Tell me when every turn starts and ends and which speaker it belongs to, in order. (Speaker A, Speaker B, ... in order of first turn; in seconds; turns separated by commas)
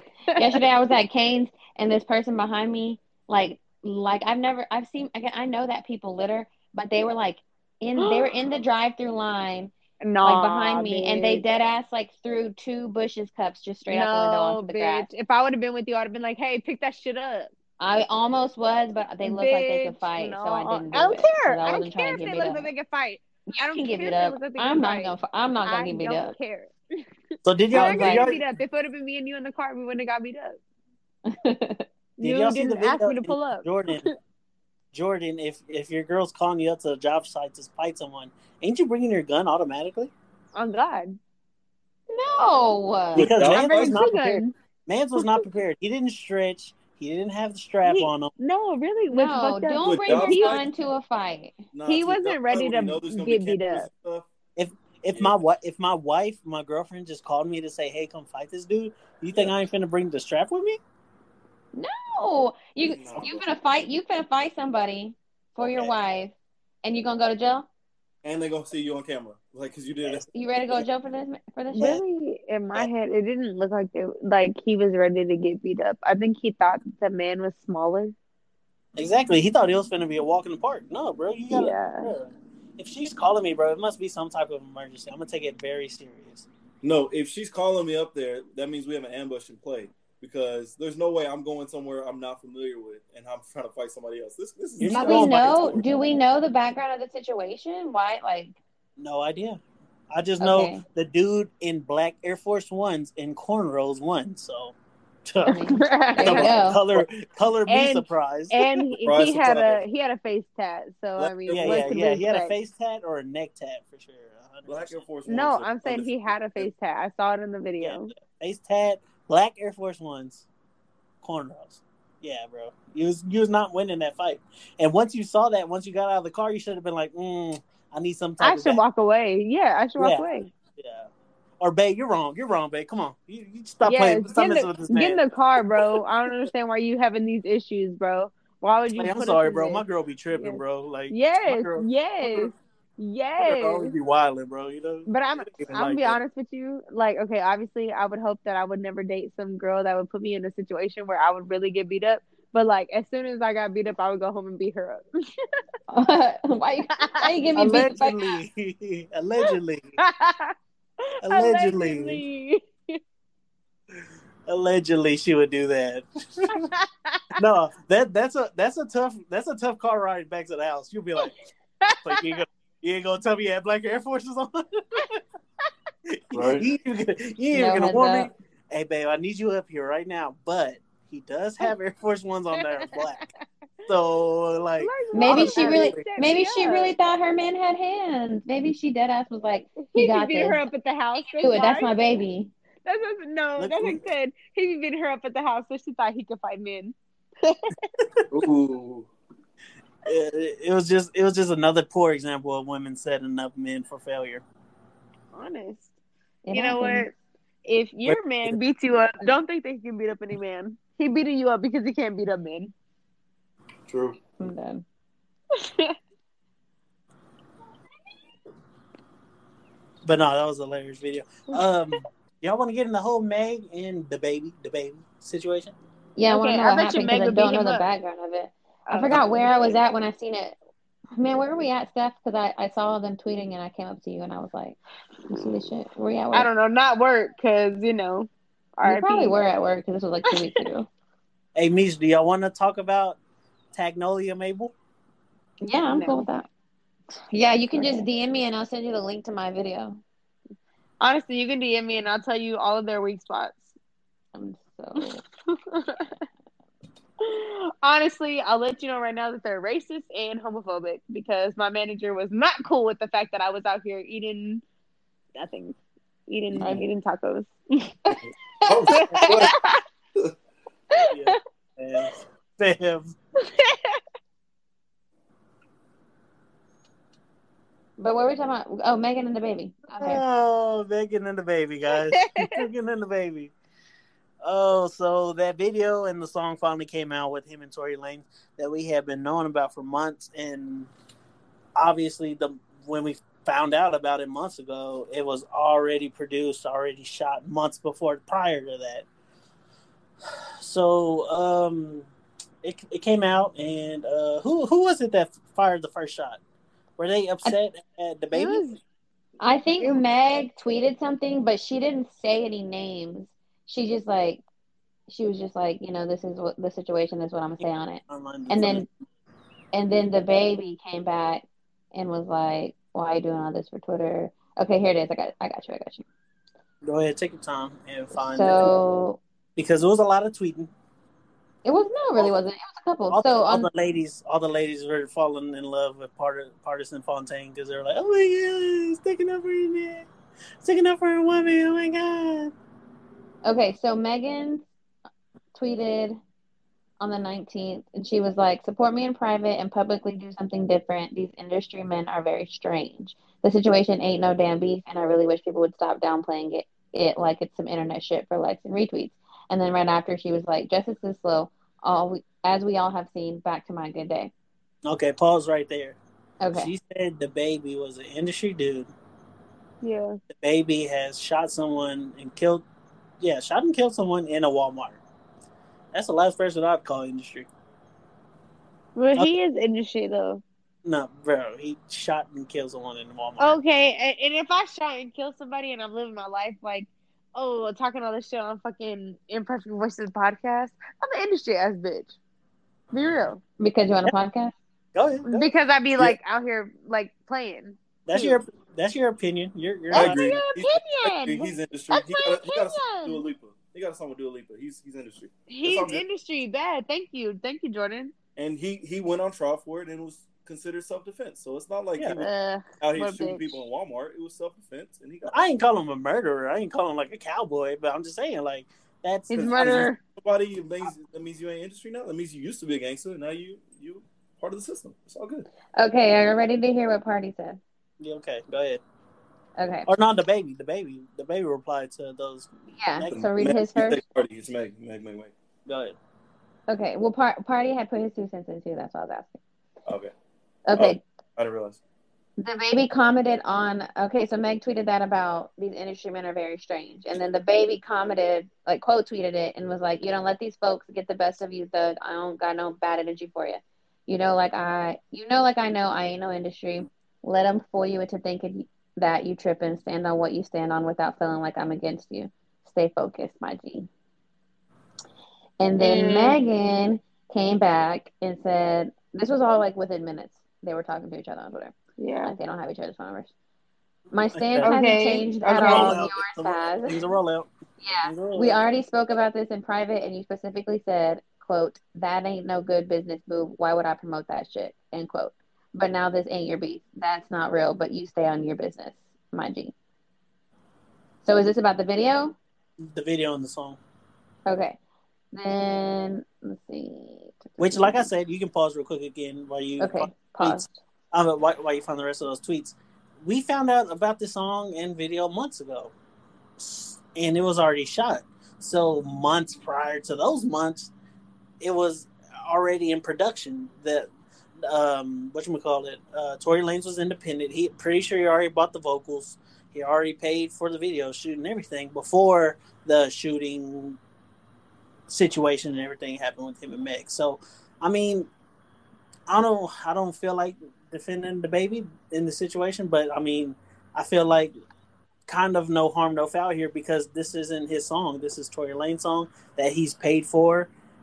Speaker A: 0.3-0.6, Speaker B: 0.4-15.1, Speaker A: 8.0-8.3, Speaker A: 10.0-11.4, Speaker A: 13.9-17.5, Speaker B: 17.8-22.7, Speaker A: 19.2-25.1, Speaker B: 23.5-26.4, Speaker A: 25.7-27.0, Speaker C: 27.4-28.4, Speaker A: 27.7-30.6, Speaker B: 27.8-28.3, Speaker B: 31.3-31.9, Speaker A: 32.2-34.1, Speaker C: 32.2-34.1, Speaker C: 34.9-40.1, Speaker A: 40.5-41.2, Speaker B: 42.1-43.3, Speaker C: 43.1-48.3, Speaker D: 43.2-44.0, Speaker A: 43.4-44.5, Speaker A: 45.2-45.4, Speaker A: 47.8-50.6, Speaker B: 49.1-51.6, Speaker D: 49.8-50.7, Speaker D: 51.7-54.3, Speaker A: 51.9-53.9, Speaker C: 54.6-60.8, Speaker D: 55.1-55.4, Speaker D: 59.3-59.6, Speaker B: 61.7-67.7, Speaker D: 62.8-63.5, Speaker D: 68.2-70.3, Speaker B: 70.3-72.0, Speaker A: 71.7-78.1, Speaker C: 79.0-86.5, Speaker A: 81.5-82.1, Speaker D: 86.8-95.9, Speaker C: 94.8-95.7, Speaker B: 94.8-98.5, Speaker C: 99.0-105.6, Speaker B: 100.4-100.8, Speaker B: 105.5-106.8, Speaker A: 105.7-106.5, Speaker C: 106.2-108.7, Speaker A: 107.7-112.5, Speaker D: 109.0-109.8, Speaker D: 111.2-112.0, Speaker C: 111.5-115.0, Speaker D: 114.7-116.7, Speaker A: 115.3-118.1, Speaker C: 117.8-120.5, Speaker C: 121.2-128.8, Speaker A: 128.4-130.5, Speaker C: 130.0-135.9, Speaker A: 133.8-139.8, Speaker C: 138.9-142.5, Speaker A: 140.3-143.9, Speaker C: 143.4-146.2, Speaker A: 145.1-155.1, Speaker B: 155.9-158.4, Speaker A: 156.9-157.3, Speaker C: 157.6-159.9, Speaker A: 159.4-160.6, Speaker A: 161.2-163.0, Speaker C: 161.2-162.3, Speaker C: 164.5-166.6, Speaker A: 166.6-167.4, Speaker C: 167.3-171.4, Speaker A: 171.8-172.4, Speaker C: 172.0-175.2, Speaker C: 176.1-183.3, Speaker D: 176.3-176.7, Speaker B: 177.5-178.3, Speaker A: 182.6-183.0, Speaker C: 183.9-186.1, Speaker A: 184.8-186.9, Speaker B: 185.1-190.6, Speaker A: 189.9-191.9, Speaker B: 191.3-192.5, Speaker A: 192.8-197.7, Speaker C: 193.6-194.0, Speaker D: 198.3-199.1, Speaker C: 200.1-204.4, Speaker A: 205.3-205.9, Speaker B: 206.5-207.1, Speaker A: 206.5-207.1, Speaker A: 207.7-212.7, Speaker C: 208.1-208.6, Speaker D: 213.9-214.2, Speaker B: 214.4-214.8, Speaker A: 215.6-216.0, Speaker C: 220.0-225.8, Speaker B: 226.2-230.6, Speaker A: 226.3-227.9, Speaker A: 228.9-229.4, Speaker B: 231.2-234.8, Speaker B: 235.3-236.5, Speaker A: 235.3-235.7, Speaker A: 236.3-239.3, Speaker B: 238.8-240.9, Speaker A: 240.2-240.7, Speaker C: 241.6-243.2, Speaker C: 243.7-244.7, Speaker B: 245.6-246.5, Speaker A: 245.9-246.2, Speaker B: 247.3-250.0, Speaker A: 251.0-253.8, Speaker B: 254.3-255.2, Speaker A: 255.0-256.1, Speaker A: 257.2-264.6, Speaker A: 265.4-265.8, Speaker A: 266.3-268.2, Speaker D: 266.6-266.8, Speaker D: 268.2-269.6, Speaker A: 268.8-269.8, Speaker C: 269.1-269.5, Speaker A: 270.9-271.4, Speaker C: 271.1-273.1, Speaker A: 273.4-274.0, Speaker B: 278.0-280.2, Speaker C: 280.0-283.5, Speaker A: 282.2-282.6, Speaker C: 284.4-290.9, Speaker C: 291.8-299.1, Speaker C: 300.6-302.1, Speaker C: 302.6-306.4, Speaker C: 307.0-308.8, Speaker A: 308.3-308.8, Speaker B: 309.4-314.4, Speaker B: 315.1-318.9, Speaker C: 317.6-318.9, Speaker B: 319.7-326.1, Speaker C: 326.8-328.7, Speaker B: 328.3-329.2, Speaker C: 329.6-330.7, Speaker B: 331.6-333.7, Speaker C: 333.1-340.1, Speaker C: 340.6-342.5, Speaker B: 343.4-344.6, Speaker B: 345.6-346.2, Speaker B: 347.0-364.3, Speaker C: 364.9-366.0, Speaker B: 366.4-366.7, Speaker C: 366.5-368.9, Speaker A: 369.8-370.2, Speaker C: 370.3-372.7, Speaker C: 373.2-375.0, Speaker C: 375.9-377.5, Speaker A: 379.0-380.4, Speaker C: 380.9-383.6, Speaker A: 383.4-392.2, Speaker A: 392.9-393.4, Speaker B: 393.6-394.5, Speaker C: 394.9-395.5, Speaker A: 395.3-398.4, Speaker C: 398.1-400.2, Speaker A: 399.9-403.2, Speaker D: 399.9-406.0, Speaker A: 405.5-408.1, Speaker D: 408.4-412.3, Speaker A: 412.2-413.6, Speaker D: 412.8-415.4, Speaker C: 415.3-419.9, Speaker A: 419.3-420.0, Speaker D: 419.4-425.5, Speaker B: 425.8-427.6, Speaker C: 428.0-428.8, Speaker B: 429.6-429.9, Speaker C: 429.9-433.1, Speaker B: 432.7-434.0, Speaker D: 433.1-435.3, Speaker C: 435.7-436.0, Speaker B: 436.7-439.4, Speaker D: 439.9-440.1, Speaker B: 440.7-441.0, Speaker D: 440.8-441.8, Speaker B: 442.4-463.9, Speaker B: 465.6-473.3, Speaker A: 465.8-466.4, Speaker A: 472.0-472.4, Speaker B: 474.1-477.0, Speaker C: 474.3-474.8, Speaker A: 474.6-476.1, Speaker C: 475.4-477.5, Speaker B: 477.8-489.7, Speaker C: 478.0-478.6, Speaker B: 491.2-492.4, Speaker C: 492.8-493.8, Speaker B: 494.5-494.8, Speaker B: 495.3-498.1, Speaker C: 497.6-505.9, Speaker B: 499.8-500.7, Speaker C: 506.6-510.9, Speaker C: 511.6-514.1, Speaker C: 514.6-524.0, Speaker C: 525.1-528.3, Speaker C: 529.3-534.5, Speaker C: 535.3-540.7